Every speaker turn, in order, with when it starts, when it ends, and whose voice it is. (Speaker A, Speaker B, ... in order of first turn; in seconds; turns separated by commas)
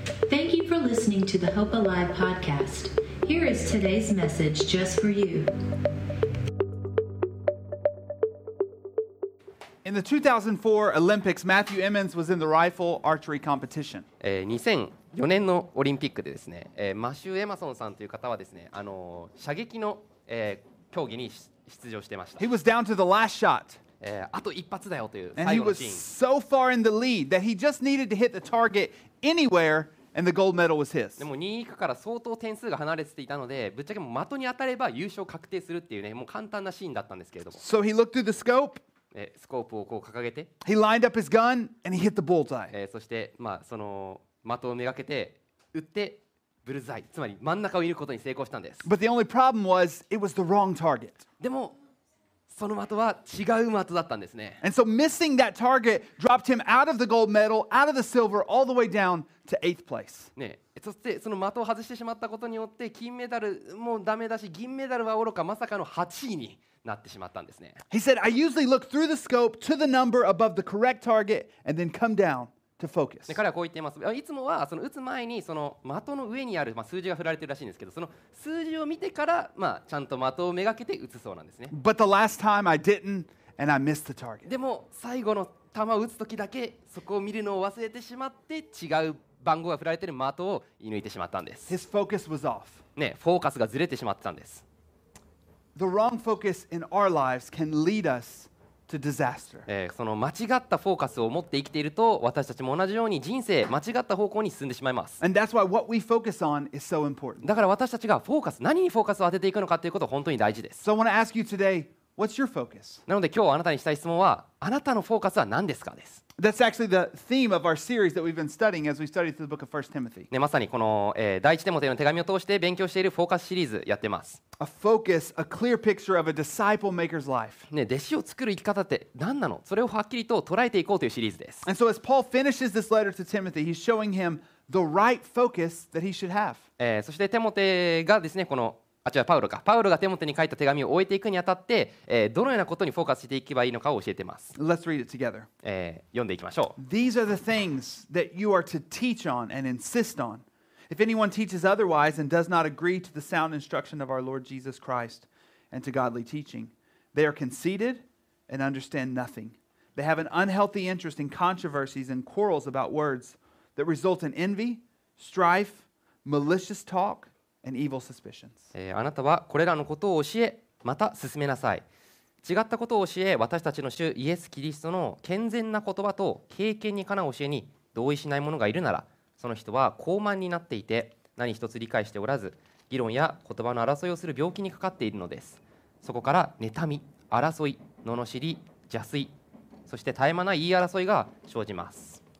Speaker A: 0.3-5.5, Speaker B: 9.8-14.1, Speaker C: 14.2-22.5, Speaker B: 22.4-23.8, Speaker C: 24.0-26.1, Speaker B: 25.4-31.3, Speaker C: 31.2-37.6, Speaker B: 37.6-38.8, Speaker C: 39.1-40.5, Speaker B: 40.6-42.7, Speaker C: 42.7-48.9, Speaker B: 48.8-51.2, Speaker C: 51.4-51.8, Speaker C: 52.5-54.6, Speaker B: 54.6-60.3, Speaker C: 60.4-67.8, Speaker B: 67.9-73.4, Speaker C: 73.3-81.7, Speaker B: 81.7-84.5, Speaker C: 84.5-91.7, Speaker B: 91.7-92.8, Speaker C: 93.0-94.7, Speaker B: 95.8-99.7, Speaker C: 99.7-105.2, Speaker B: 105.2-107.5, Speaker C: 107.4-110.8, Speaker B: 110.8-113.0, Speaker C: 113.1-116.2, Speaker B: 116.4-120.3, Speaker C: 120.3-124.4, Speaker B: 124.6-127.7, Speaker C: 127.7-131.7, Speaker B: 131.7-136.6, Speaker C: 136.8-144.6, Speaker B: 144.6-145.5, Speaker C: 145.6-146.8, Speaker B: 146.8-168.7, Speaker C: 168.7-171.8, Speaker C: 172.4-189.3, Speaker C: 189.9-192.2